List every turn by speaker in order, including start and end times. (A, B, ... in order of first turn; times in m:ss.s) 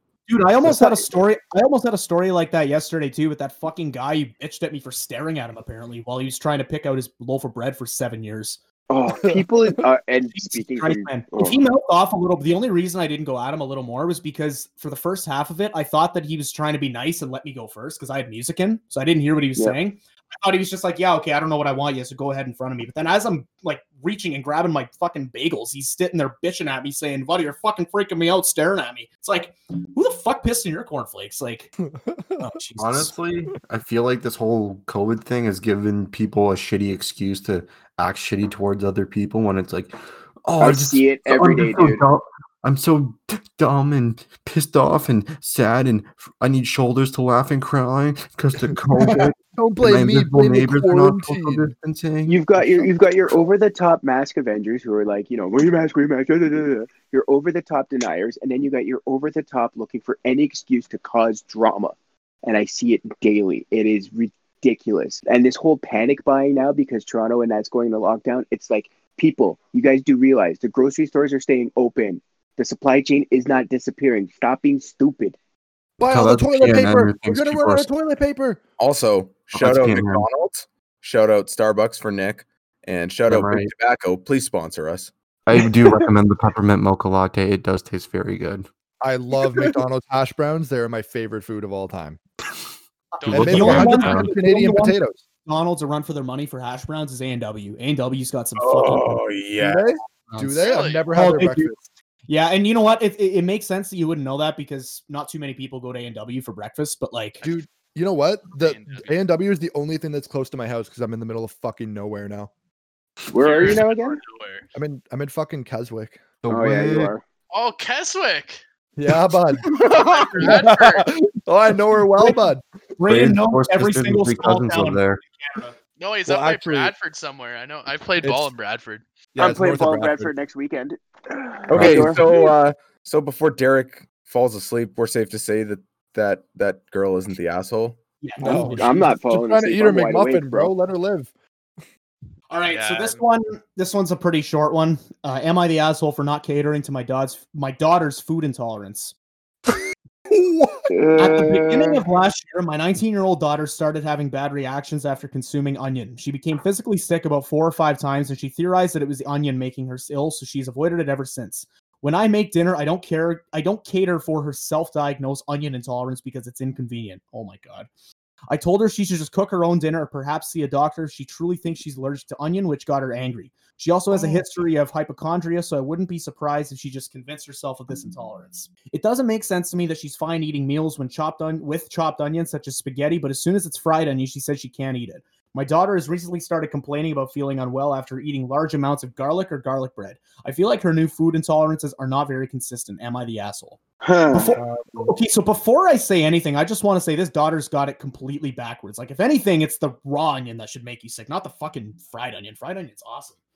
0:00.3-0:08.6 A
0:00.6-0:01.0 B
0:08.9-0:11.6 B
0:10.3-0:31.7 A
0:31.8-0:32.5 C
0:32.4-0:33.1 A
0:32.8-0:52.9 D
0:40.6-0:42.0 B
0:49.4-0:51.7 C
0:52.2-1:15.4 B
1:16.0-1:18.6 C
1:16.1-1:17.9 D
1:18.8-1:25.1 E
1:19.5-1:20.2 D
1:23.3-1:23.7 D
1:25.4-1:28.7 D
1:29.0-1:32.2 C
1:33.1-1:39.2 A
1:33.2-1:33.9 F
1:33.3-1:34.3 D
1:33.3-1:35.2 C
1:38.6-1:39.9 E
1:39.6-1:41.8 C
1:40.3-1:40.6 A
1:40.6-1:41.1 F
1:41.1-1:41.8 A
1:42.3-1:47.4 A
1:47.4-1:52.5 C
1:48.5-1:49.1 F
1:53.3-1:54.2 B
1:53.3-1:54.6 F
1:54.7-1:56.4 C
1:56.4-1:57.1 D
1:56.5-1:57.2 B
1:57.5-1:58.6 F
1:59.0-2:02.6 C
1:59.7-2:01.1 F
2:02.2-2:02.4 A
2:03.0-2:05.8 A
2:03.0-2:05.2 D
2:06.0-2:09.0 F
2:06.2-2:06.9 C
2:08.2-2:08.5 C
2:09.3-2:10.3 C
2:09.4-2:12.3 B
2:11.7-2:18.0 E
2:11.7-2:12.1 D
2:11.8-2:12.2 C
2:18.2-2:19.1 A
2:18.4-2:21.3 C
2:18.5-2:20.7 B
2:22.5-2:29.1 A
2:22.7-2:23.2 F
2:30.3-2:30.9 C
2:30.9-2:32.0 B
2:31.2-2:47.9 A
2:48.5-3:13.8 A
3:14.0-3:14.6 B
3:14.3-3:23.4 A
3:14.6-3:15.1 C